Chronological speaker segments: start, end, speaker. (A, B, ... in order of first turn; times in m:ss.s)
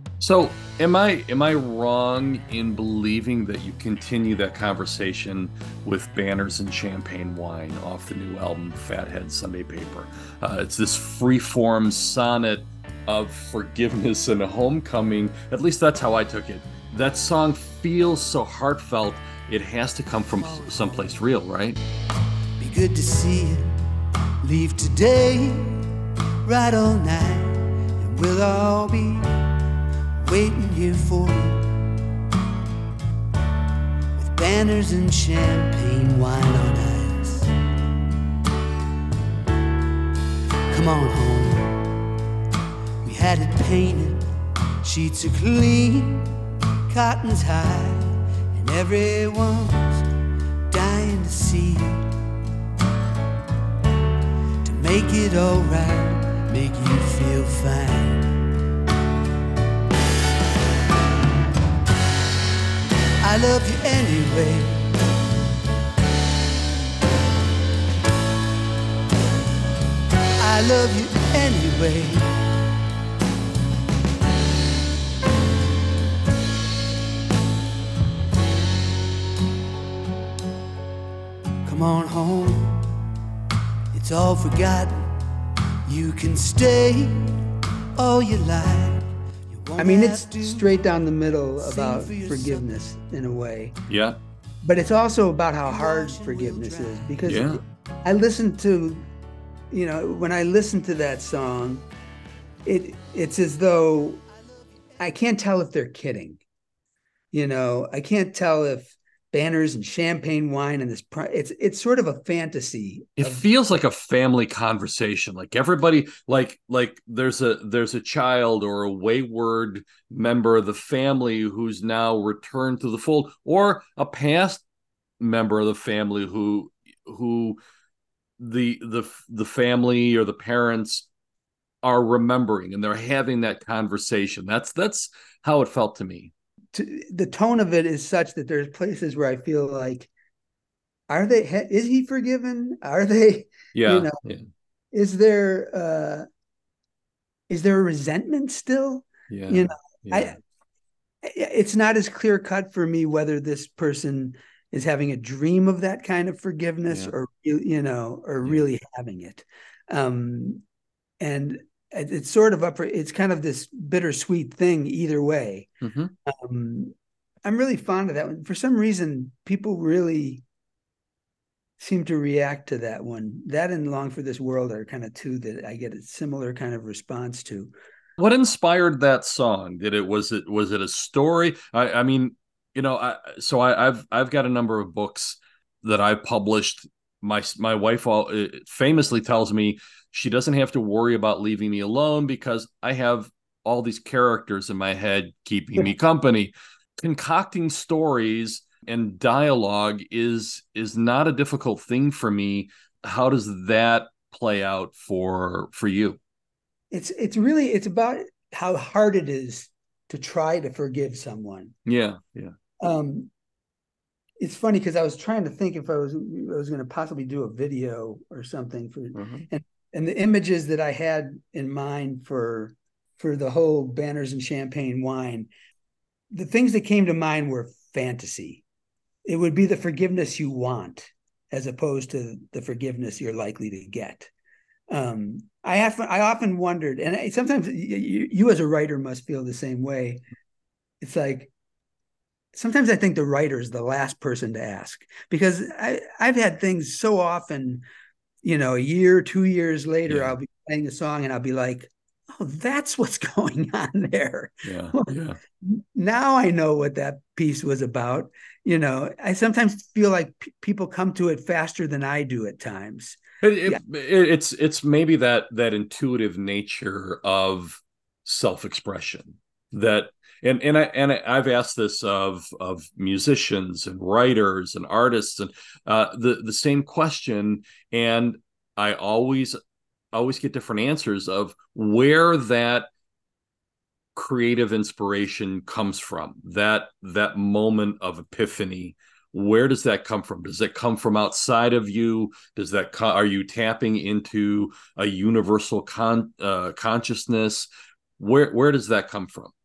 0:00.2-0:21.8 A
0:22.6-0:23.8 B
0:24.4-0:25.9 B
0:26.4-0:29.5 B
0:30.2-0:31.8 B
0:34.2-0:37.5 B
0:40.7-0:41.9 B
0:43.0-0:50.1 B
0:50.7-0:52.2 B
0:54.6-0:58.4 B
1:03.2-1:05.0 B
1:10.4-1:12.4 B
1:21.6-1:23.0 B
1:23.9-1:25.1 B
1:25.9-1:27.4 B
1:28.0-1:30.9 B
1:29.8-1:33.8 C
1:31.6-1:32.8 B
1:33.9-1:34.2 A
1:34.6-1:39.1 C
1:35.6-1:37.2 B
1:37.2-1:37.6 A
1:39.7-1:41.8 C
1:42.7-1:44.2 C
1:45.0-1:46.4 C
1:47.3-1:53.4 C
1:53.2-2:04.6 A
2:05.2-2:07.6 A
2:08.4-2:11.1 A
2:11.8-2:16.3 A
2:16.7-2:20.1 C
2:21.1-2:24.2 C
2:23.8-2:24.4 A
2:24.9-2:26.3 C
2:27.5-2:30.4 C
2:29.3-2:30.4 A
2:31.2-2:40.6 C
2:41.2-2:45.7 C
2:45.8-2:46.1 A
2:46.3-2:46.9 C
2:47.4-2:50.4 C
2:51.8-2:57.7 C
2:58.2-3:26.2 A
3:26.9-3:31.7 C
3:31.9-3:32.5 A
3:32.8-3:33.3 C
3:34.4-3:45.5 C
3:39.1-3:39.5 A
3:46.3-3:48.6 C
3:49.3-3:54.3 C
3:54.9-4:00.2 C
4:01.0-4:01.5 C
4:02.6-4:07.8 C
4:08.4-4:23.8 C
4:10.1-4:10.4 A
4:14.6-4:15.4 A
4:23.4-4:39.6 A
4:40.1-4:42.9 A
4:44.1-4:57.7 A
4:58.2-4:59.5 A